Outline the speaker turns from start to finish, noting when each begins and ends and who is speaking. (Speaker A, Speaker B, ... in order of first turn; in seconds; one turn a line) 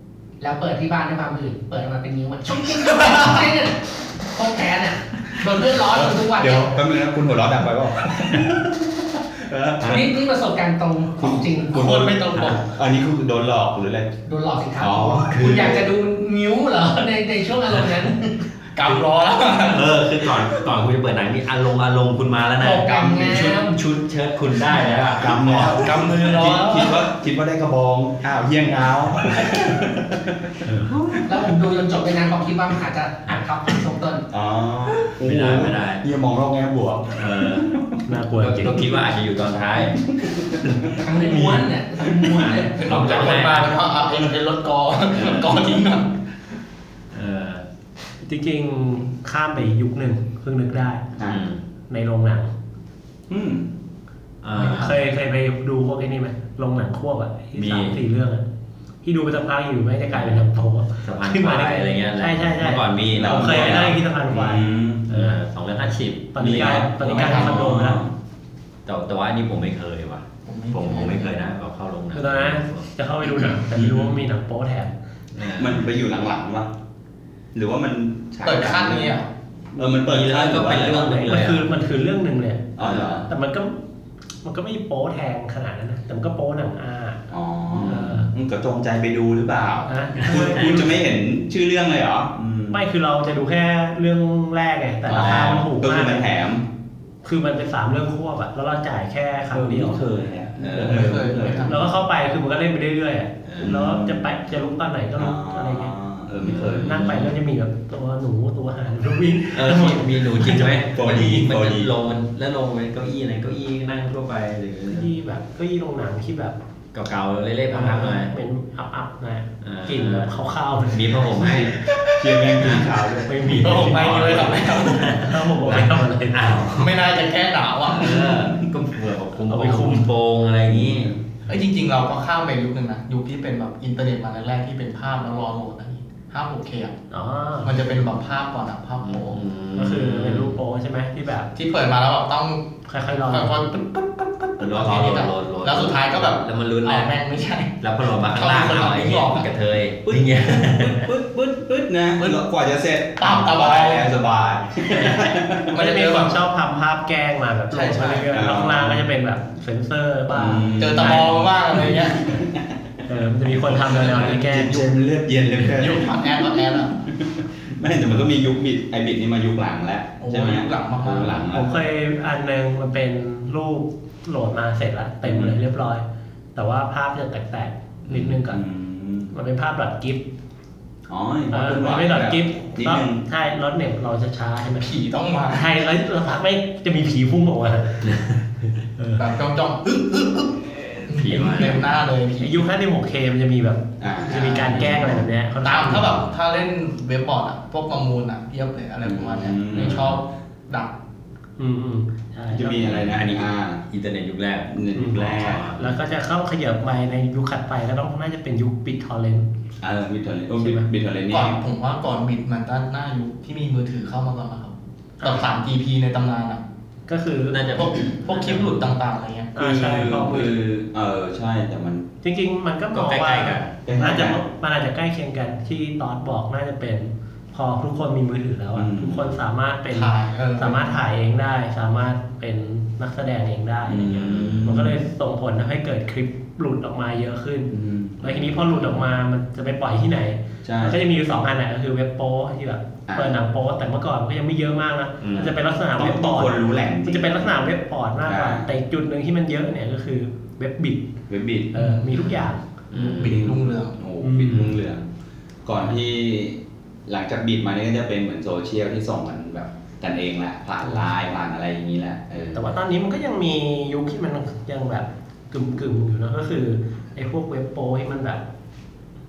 Speaker A: 0.4-6.8
Speaker B: 5.9-10.2
Speaker C: 9.8-10.1
Speaker A: 9.8-11.9
Speaker B: 11.2-14.1
Speaker D: 11.7-12.6
Speaker A: 14.2-18.3
Speaker B: 14.8-15.8
Speaker C: 15.3-15.8
Speaker D: 18.7-20.4
Speaker C: 19.6-26.2
Speaker A: 22.6-23.8
Speaker B: 22.8-23.6
Speaker B: 24.9-31.2
Speaker D: 25.5-27.1
Speaker E: 30.7-31.0
Speaker A: 31.2-34.2
Speaker B: 34.3-38.0
Speaker C: 35.2-36.0
Speaker C: 37.1-37.8
Speaker E: 38.0-38.9
Speaker C: 38.4-40.1
Speaker B: 40.1-40.6
Speaker C: 40.6-41.7
Speaker A: 41.0-43.0
Speaker C: 42.3-43.8
Speaker D: 42.4-46.2
Speaker C: 45.1-45.6
Speaker C: 47.1-47.6
Speaker E: 48.2-51.0
Speaker B: 51.1-51.4
Speaker C: 51.2-51.6
Speaker E: 51.9-52.5
Speaker B: 53.3-53.7
Speaker C: 54.4-55.0
Speaker E: 54.6-58.4
Speaker D: 54.6-54.9
Speaker C: 57.5-58.0
Speaker E: 59.0-65.3
Speaker C: 60.1-60.5
Speaker C: 61.0-64.0
Speaker B: 63.1-65.1
Speaker C: 65.1-67.9
Speaker E: 66.3-68.0
Speaker B: 66.5-68.1
Speaker C: 68.8-72.9
Speaker D: 70.5-71.3
Speaker E: 72.1-74.9
Speaker B: 73.7-74.2
Speaker C: 75.3-75.8
Speaker B: 75.5-76.7
Speaker B: 77.5-79.2
Speaker D: 78.4-79.3
Speaker B: 79.7-81.3
Speaker C: 79.8-81.7
Speaker E: 80.9-82.7
Speaker B: 82.8-83.3
Speaker C: 82.8-83.3
Speaker E: 83.3-83.8
Speaker E: 84.4-87.2
Speaker B: 87.3-92.8
Speaker E: 87.8-88.3
Speaker E: 89.9-91.0
Speaker C: 90.2-90.8
Speaker E: 92.7-96.2
Speaker B: 95.1-96.7
Speaker C: 95.1-95.6
Speaker E: 97.2-100.0
Speaker B: 99.5-101.8
Speaker C: 100.6-101.2
Speaker D: 100.7-101.8
Speaker E: 101.7-105.9
Speaker C: 103.4-103.8
Speaker B: 103.6-104.3
Speaker B: 105.2-107.0
Speaker C: 106.4-107.3
Speaker E: 106.8-110.8
Speaker C: 109.5-115.1
Speaker B: 110.9-111.9
Speaker E: 114.9-116.5
Speaker C: 116.9-118.3
Speaker E: 117.7-121.2
Speaker C: 119.6-121.8
Speaker D: 121.5-125.2
Speaker B: 122.1-124.4
Speaker C: 122.6-127.0
Speaker E: 123.3-124.4
Speaker E: 125.0-126.8
Speaker D: 126.7-128.5
Speaker C: 127.9-131.2
Speaker E: 129.5-130.1
Speaker B: 130.7-131.1
Speaker D: 131.5-136.9
Speaker E: 137.1-137.7
Speaker D: 137.6-139.4
Speaker C: 139.0-140.6
Speaker E: 139.7-141.5
Speaker D: 141.5-149.5
Speaker E: 142.9-143.6
Speaker C: 144.6-147.2
Speaker C: 147.8-151.1
Speaker B: 150.0-155.7
Speaker D: 153.2-154.2
Speaker E: 154.9-161.3
Speaker D: 155.6-156.4
Speaker D: 157.7-158.3
Speaker B: 158.3-159.0
Speaker B: 160.3-162.6
Speaker D: 160.8-162.3
Speaker E: 163.1-164.8
Speaker B: 163.5-171.7
Speaker D: 164.3-164.8
Speaker D: 165.7-166.9
Speaker D: 170.2-171.5
Speaker E: 171.5-176.0
Speaker B: 175.3-175.5
Speaker E: 176.5-178.6
Speaker B: 178.1-179.3
Speaker E: 179.3-180.2
Speaker B: 181.1-183.2
Speaker E: 181.5-184.9
Speaker D: 184.8-185.7
Speaker E: 185.5-189.2
Speaker D: 189.2-192.6
Speaker C: 191.1-192.0
Speaker E: 192.4-196.2
Speaker B: 194.0-195.0
Speaker D: 194.3-200.9
Speaker B: 199.0-200.2
Speaker E: 201.6-202.9
Speaker B: 202.5-203.8
Speaker C: 202.8-206.0
Speaker B: 204.7-205.7
Speaker E: 204.9-209.5
Speaker B: 209.8-211.6
Speaker E: 210.6-210.9
Speaker D: 211.3-216.6
Speaker E: 217.1-217.7
Speaker C: 217.5-218.7
Speaker D: 217.7-219.5
Speaker E: 219.5-220.6
Speaker B: 219.6-222.1
Speaker E: 222.2-251.1
Speaker C: 222.9-223.7
Speaker B: 223.8-224.4
Speaker B: 228.7-229.4
Speaker D: 229.9-230.9
Speaker B: 233.9-235.0
Speaker B: 237.7-239.0
Speaker B: 240.6-241.0
Speaker B: 243.1-243.4
Speaker C: 245.2-245.5
Speaker B: 245.9-247.6
Speaker B: 248.2-248.7
Speaker B: 251.3-251.9
Speaker E: 251.7-252.6
Speaker C: 252.9-253.5
Speaker D: 252.9-254.0
Speaker B: 253.2-255.1
Speaker E: 254.2-254.7
Speaker B: 255.6-262.7
Speaker E: 262.5-268.4